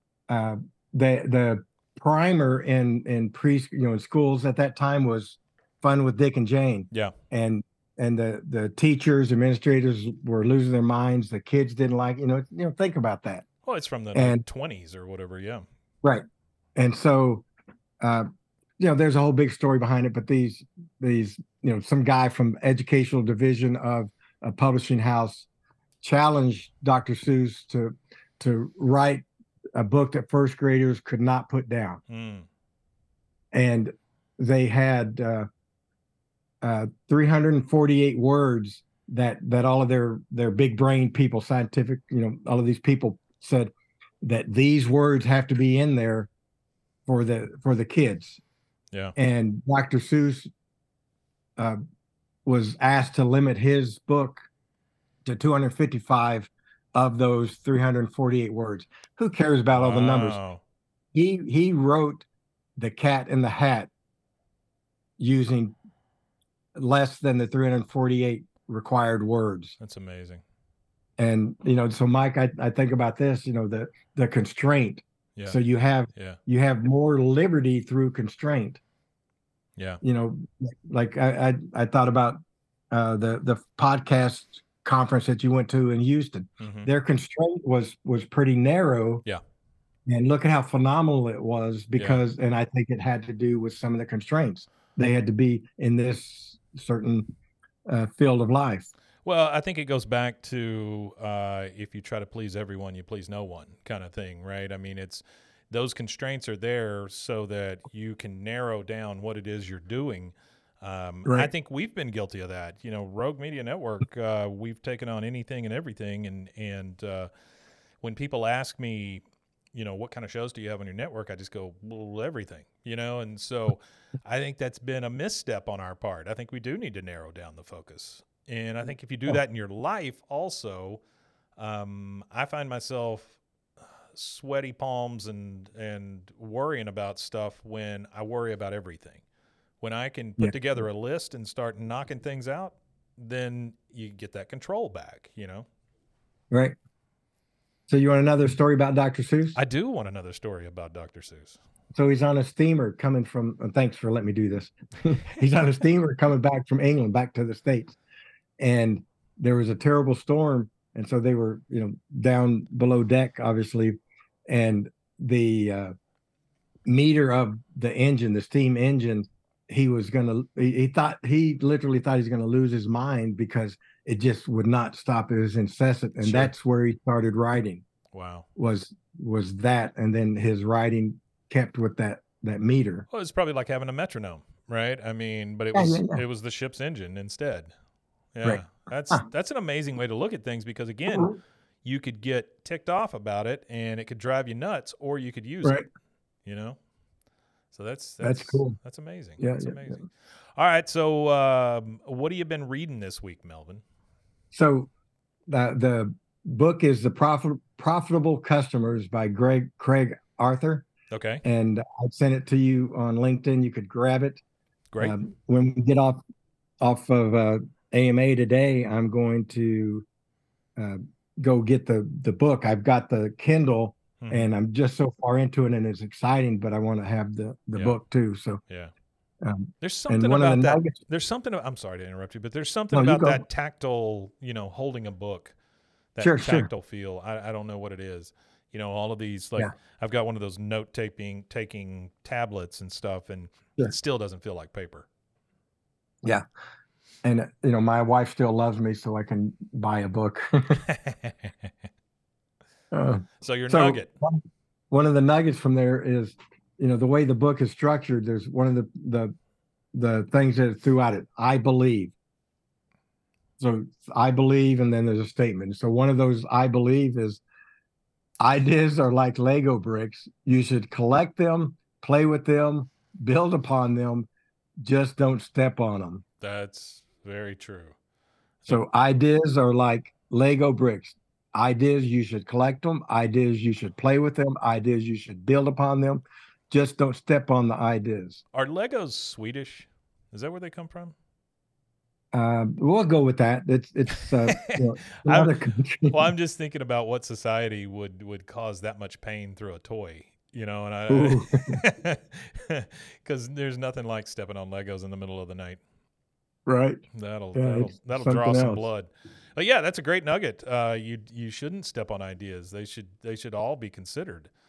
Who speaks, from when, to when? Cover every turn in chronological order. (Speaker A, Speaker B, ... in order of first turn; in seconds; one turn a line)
Speaker A: 0.3-13.4
Speaker B: 13.6-15.7
Speaker A: 14.1-14.4
Speaker A: 16.8-17.5
Speaker A: 18.0-18.3
Speaker A: 18.8-25.5
Speaker A: 26.0-32.0
Speaker B: 32.1-32.5
Speaker A: 33.5-35.5
Speaker A: 36.6-46.3
Speaker A: 47.1-48.4
Speaker A: 49.2-50.5
Speaker A: 52.5-54.5
Speaker A: 55.2-60.4
Speaker B: 59.7-60.6
Speaker A: 61.1-62.3
Speaker A: 62.8-63.9
Speaker A: 65.2-65.8
Speaker A: 66.8-69.8
Speaker B: 69.8-70.4
Speaker A: 71.2-78.8
Speaker B: 79.8-80.0
Speaker A: 80.0-82.4
Speaker A: 82.9-89.2
Speaker B: 86.6-86.9
Speaker A: 90.1-97.3
Speaker B: 92.0-92.2
Speaker A: 97.9-98.9
Speaker B: 99.2-117.3
Speaker A: 111.2-111.5
Speaker B: 118.0-131.0
Speaker B: 131.6-133.4
Speaker B: 134.1-139.2
Speaker B: 139.8-145.7
Speaker A: 146.5-146.8
Speaker A: 147.9-149.6
Speaker B: 149.6-151.6
Speaker A: 151.9-158.0
Speaker A: 158.6-165.9
Speaker A: 166.9-177.8
Speaker B: 176.2-176.5
Speaker B: 178.1-178.5
Speaker A: 178.6-183.1
Speaker B: 183.1-187.7
Speaker A: 185.7-186.2
Speaker B: 188.3-195.8
Speaker A: 188.4-189.2
Speaker B: 196.4-196.8
Speaker B: 197.7-203.8
Speaker A: 198.2-198.8
Speaker A: 199.4-200.0
Speaker A: 204.5-204.9
Speaker A: 205.5-210.9
Speaker B: 211.1-211.4
Speaker A: 211.4-214.4
Speaker A: 215.0-216.2
Speaker A: 216.8-220.1
Speaker A: 220.8-228.6
Speaker B: 224.2-224.5
Speaker B: 228.7-228.9
Speaker A: 229.4-231.0
Speaker B: 229.8-235.6
Speaker A: 232.9-233.4
Speaker B: 236.2-245.1
Speaker A: 236.2-236.7
Speaker A: 247.2-250.8
Speaker B: 250.9-251.5
Speaker A: 252.9-259.3
Speaker B: 253.4-254.1
Speaker A: 259.9-262.1
Speaker A: 263.6-267.4
Speaker A: 268.4-274.3
Speaker A: 274.8-276.2
Speaker B: 276.4-278.0
Speaker A: 278.7-288.4
Speaker B: 288.5-291.1
Speaker A: 292.3-296.3
Speaker B: 294.5-305.8
Speaker A: 301.1-301.8
Speaker A: 306.7-307.0
Speaker B: 307.1-314.5
Speaker A: 307.6-308.9